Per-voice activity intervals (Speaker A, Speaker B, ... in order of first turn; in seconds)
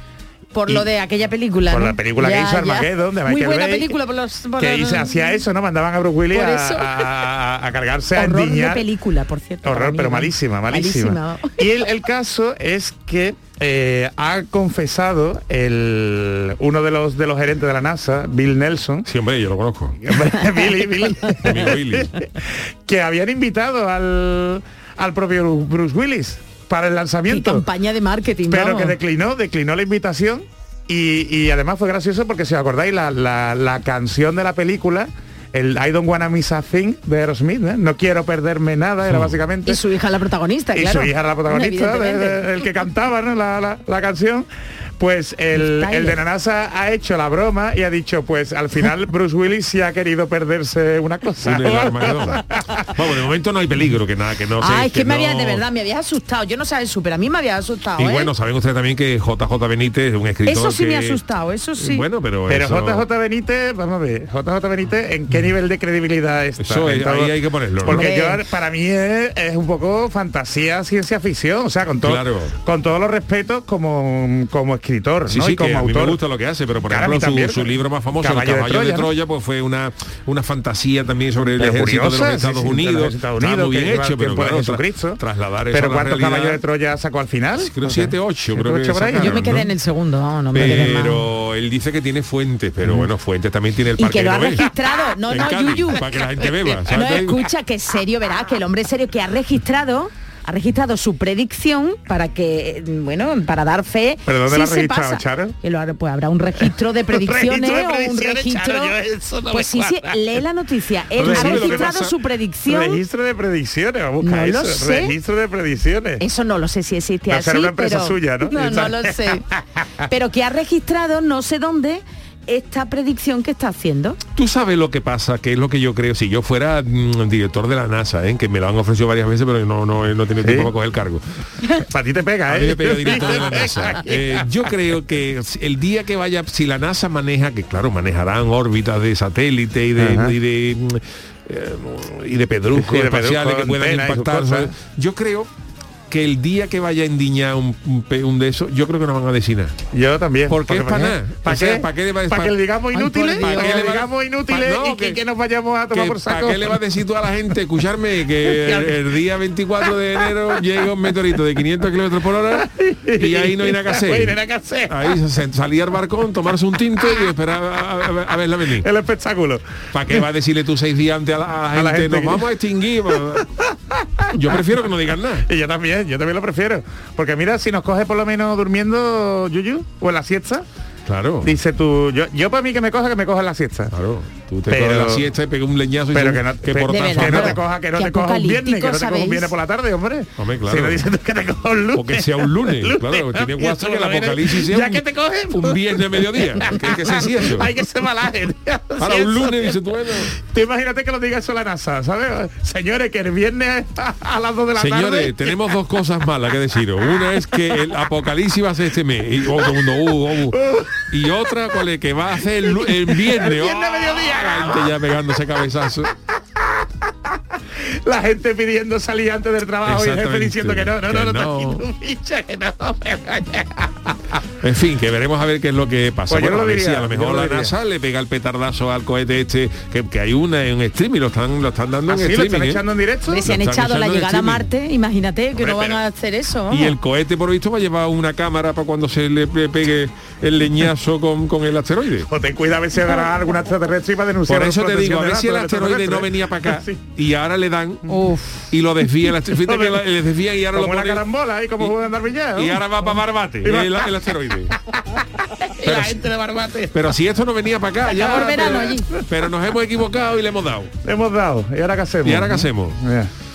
Speaker A: 0.6-5.4, 6.3-7.1, 8.2-11.6, 20.5-21.3, 27.3-29.0, 39.7-42.5, 45.5-46.2, 54.6-58.3, 60.5-62.0, 67.9-68.4, 89.2-91.3, 94.0-109.0, 109.5-113.0, 114.2-115.2, 116.2-119.5, 120.1-124.2, 152.9-153.9, 186.9-189.5, 233.3-236.9, 248.1-248.6, 258.1-259.1
Speaker B: 1.7-4.0, 4.6-8.8, 9.6-19.1, 20.0-27.6, 28.5-39.8, 40.7-52.9, 62.5-76.2, 76.9-79.1, 81.5-85.2, 85.7-89.5, 90.6-90.9, 104.3-105.5, 107.1-110.2, 111.2-112.0, 112.7-116.2, 117.3-119.6, 130.4-130.7, 131.8-134.4, 140.0-140.3, 142.7-144.7, 149.9-156.8, 158.5-159.0, 162.6-165.0, 168.8-170.2, 171.7-172.5, 173.3-174.3, 175.5-180.7, 181.4-183.9, 184.7-185.2, 186.1-199.8, 200.3-205.5, 210.5-211.0, 212.8-214.9, 217.8-224.4, 226.3-227.7, 232.1-233.4, 235.6-236.0, 242.3-247.0, 249.5-250.0, 250.7-254.2, 254.9-257.1, 258.2-259.0, 261.0-263.3
Speaker C: 19.1-20.0, 21.4-22.1, 39.0-39.4, 51.4-52.4, 52.9-55.6, 58.0-61.2, 61.8-63.1, 66.6-68.1, 72.0-72.6, 75.3-86.6, 87.6-89.7, 90.5-94.7, 95.3-97.5, 111.2-112.2, 124.3-131.2, 132.5-145.5, 146.1-149.8, 150.5-152.6, 153.4-155.2, 155.9-164.4, 164.9-168.9, 169.9-173.5, 174.3-175.5, 181.1-181.6, 183.9-187.6, 190.4-191.1, 191.9-197.7, 199.0-200.3, 204.8-216.1, 219.8-221.8, 224.6-232.8, 233.4-234.7, 236.7-242.3, 244.5-251.2, 252.5-254.8, 255.8-256.2, 256.9-260.9, 262.2-263.0